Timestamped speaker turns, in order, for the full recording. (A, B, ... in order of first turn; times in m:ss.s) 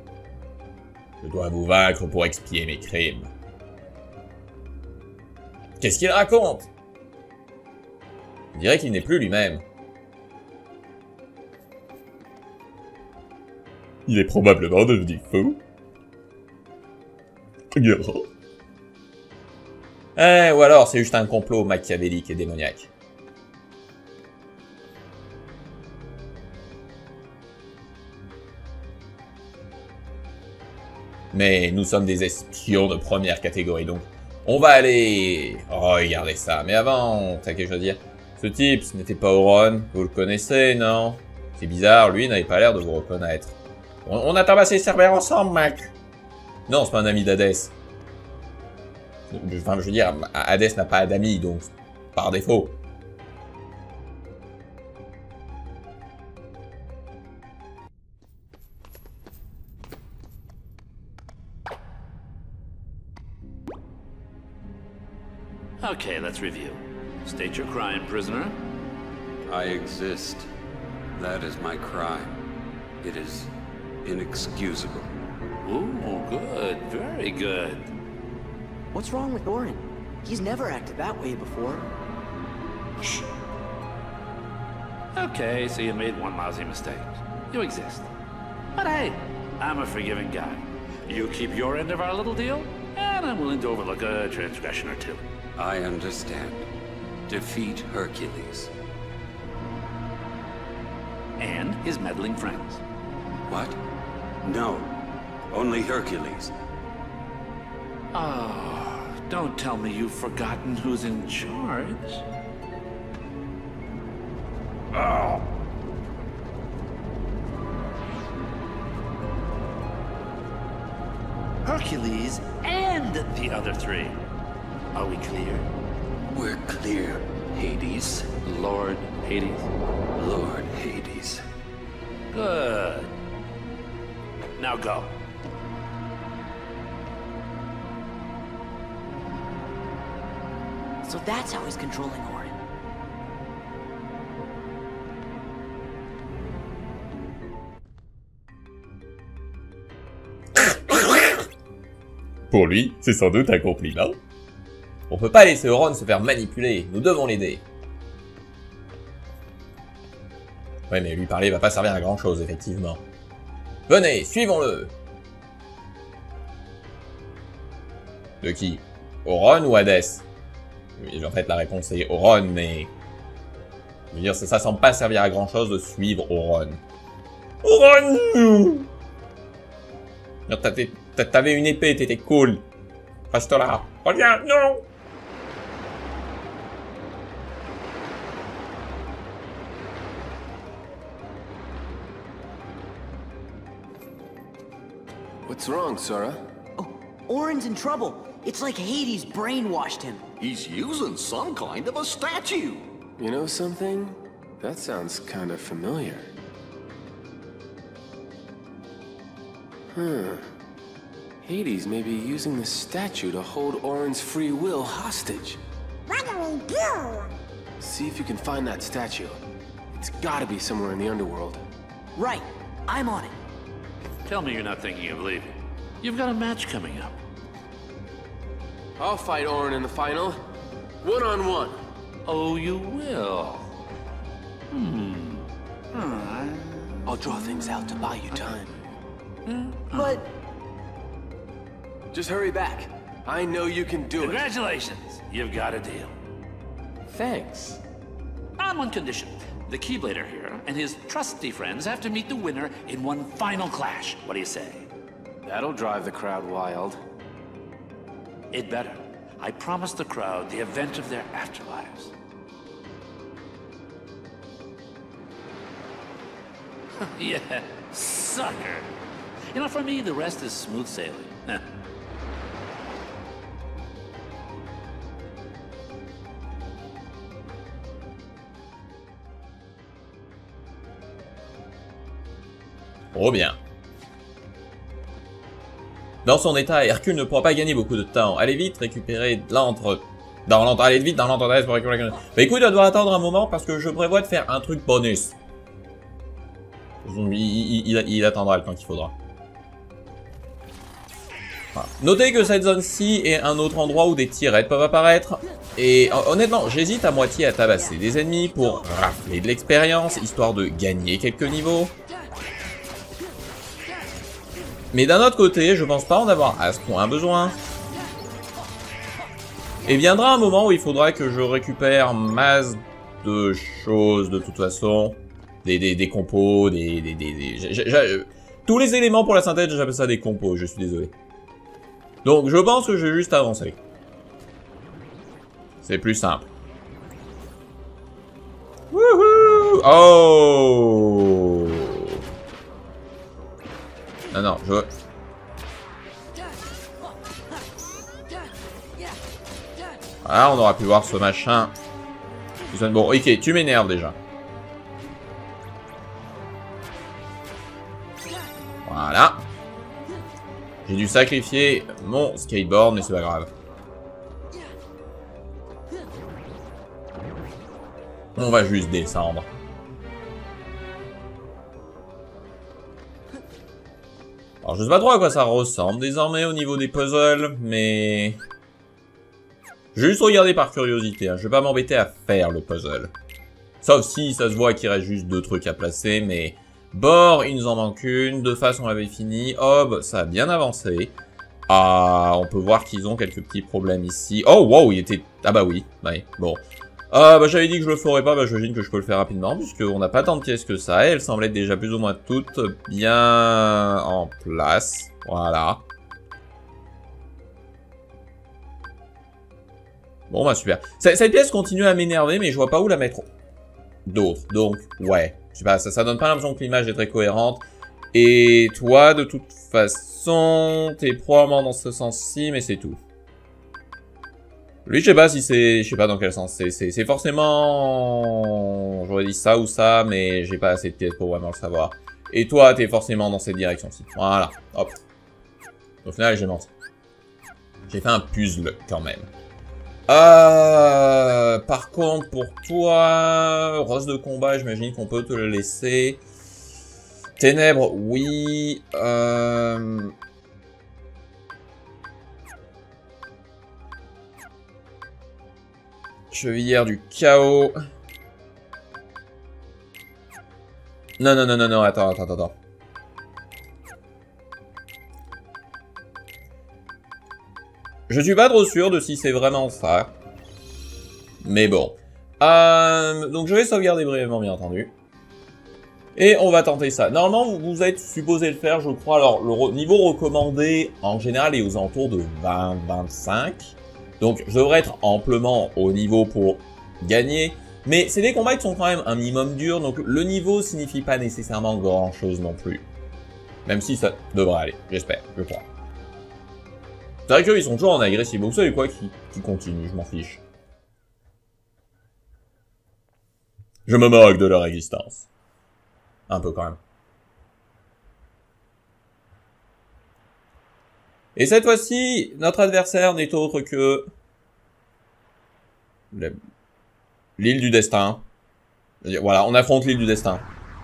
0:01.2-0:03.3 A
0:05.8-0:06.7 A
0:08.5-0:09.6 A
0:14.1-0:15.6 A
0:17.7-0:18.3 A
0:20.2-0:22.9 A
0:31.3-0:45.9 A
0:46.7-0:47.7 A
0:49.3-0:52.8 A
1:05.8-1:08.6 B
1:09.5-1:10.5 C
1:11.1-1:12.3 C
1:13.0-1:13.5 C
1:14.0-1:15.1 C
1:15.6-1:17.9 B
1:18.9-1:21.9 D
1:25.1-1:28.1 B
1:28.7-1:35.2 B
1:35.6-1:36.7 C
1:37.3-1:38.7 C
1:41.4-1:42.8 B
1:43.5-1:43.8 C
1:44.4-1:44.9 C
1:45.5-1:46.5 C
1:48.1-1:52.2 B
1:54.9-1:55.4 B
2:01.6-2:04.2 B
2:04.9-2:05.7 B
2:06.3-2:08.5 C
2:08.4-2:09.6 B
2:10.1-2:11.4 C
2:12.3-2:13.1 B
2:14.6-2:15.2 B
2:21.0-2:22.6 D
2:30.7-2:30.9 A
2:32.5-2:34.2 A
2:35.1-2:37.6 A
2:40.9-2:43.0 A
2:43.9-2:44.9 A
2:48.4-2:50.2 A
2:51.0-2:52.9 A
2:54.1-2:56.8 A
2:57.6-2:58.9 A
3:00.5-3:02.6 A
3:03.3-3:04.8 A
3:15.4-3:16.4 E
3:16.8-3:20.2 D
3:20.4-3:22.8 F
3:23.2-3:26.3 E
3:29.9-3:30.5 E
3:31.4-3:35.6 E
3:36.1-3:37.3 D
3:37.8-3:39.4 E
3:39.9-3:41.6 E
3:42.2-3:43.3 D
3:44.2-3:47.2 B
3:49.0-3:50.4 E
3:51.0-3:51.8 E
3:52.2-3:53.8 B
3:54.7-3:57.0 B
3:57.0-3:58.7 E
3:59.4-4:00.2 B
4:02.1-4:04.5 E
4:04.2-4:06.1 B
4:07.1-4:07.8 E
4:08.6-4:14.9 B
4:15.4-4:17.0 E
4:18.5-4:22.1 B
4:27.0-4:28.9 B
4:29.5-4:31.6 B
4:43.1-4:43.6 A
4:46.2-4:55.4 A
4:57.0-4:59.1 A
5:01.7-5:11.9 A
5:14.9-5:17.6 A
5:19.8-5:31.1 A
5:32.2-5:33.8 A
5:35.8-5:36.4 A
5:38.9-5:42.2 A
5:44.3-5:44.9 A
5:50.2-5:51.7 A
5:52.7-5:54.2 A
5:58.8-5:59.4 A
6:00.8-6:03.5 A
6:08.4-6:09.5 A
6:14.6-6:18.4 A
6:19.9-6:23.1 A
6:23.8-6:31.1 A
6:31.7-6:45.8 A
6:50.3-6:53.3 A
6:54.0-7:03.0 A
7:04.8-7:15.0 A
7:16.0-7:16.7 A
7:17.9-7:19.3 A
7:20.1-7:26.2 A
7:27.4-7:30.1 A
7:36.3-7:37.8 A
7:41.2-7:42.5 A
7:48.1-7:50.1 A
7:51.4-7:54.9 A
7:56.2-8:12.8 A
8:13.6-8:15.7 A
8:17.3-8:20.4 A
8:23.9-8:25.3 A
8:26.3-8:26.8 A
8:31.4-8:34.1 A
8:37.4-8:38.2 A
8:39.0-8:40.4 A